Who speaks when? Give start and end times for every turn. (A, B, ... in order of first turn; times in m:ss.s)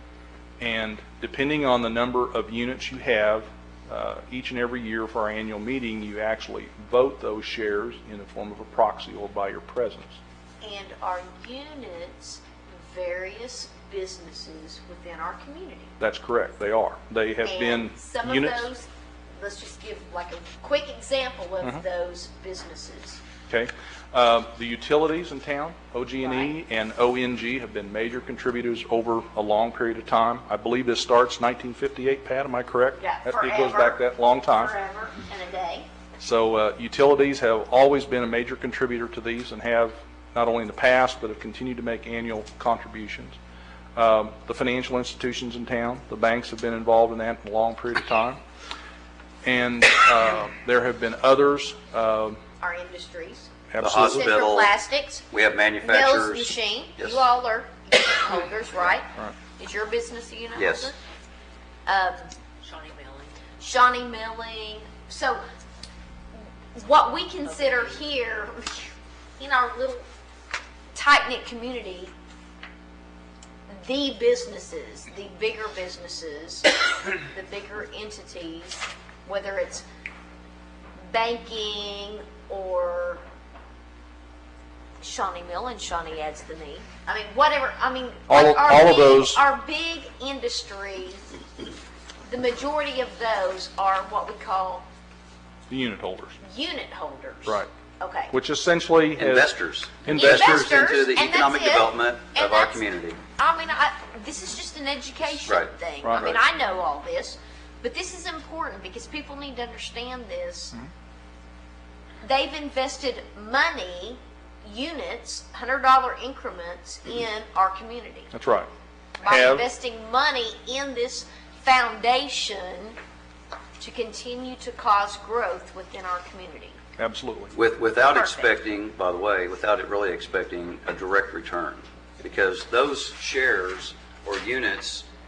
0:00.6-0:10.2 A
0:10.6-0:15.9 B
0:16.0-0:18.7 A
0:17.4-0:23.2 B
0:23.5-0:34.7 A
0:26.2-0:26.5 B
0:33.0-0:35.9 B
0:36.2-0:43.4 A
0:44.0-0:48.4 A
0:49.4-0:52.4 A
0:52.6-0:55.2 B
0:53.7-0:54.2 A
0:53.8-0:54.7 C
0:55.3-0:57.2 C
0:55.8-1:01.0 B
1:00.6-1:00.9 C
1:01.8-1:05.4 B
1:06.8-1:10.0 B
1:10.9-1:12.1 B
1:13.7-1:19.8 B
1:21.0-1:23.2 B
1:25.0-1:31.2 B
1:28.3-1:29.4 A
1:32.3-1:34.8 B
1:35.7-1:36.4 A
1:36.4-1:38.3 B
1:38.3-1:39.5 A
1:39.2-1:43.2 C
1:40.0-1:40.7 A
1:40.1-1:42.8 B
1:43.4-1:50.8 B
1:45.4-1:46.4 C
1:52.2-1:58.3 B
1:58.3-1:58.7 A
1:59.2-2:03.0 B
1:59.2-1:59.6 A
2:03.8-2:06.8 B
2:07.0-2:07.5 A
2:07.5-2:15.1 C
2:08.1-2:08.5 B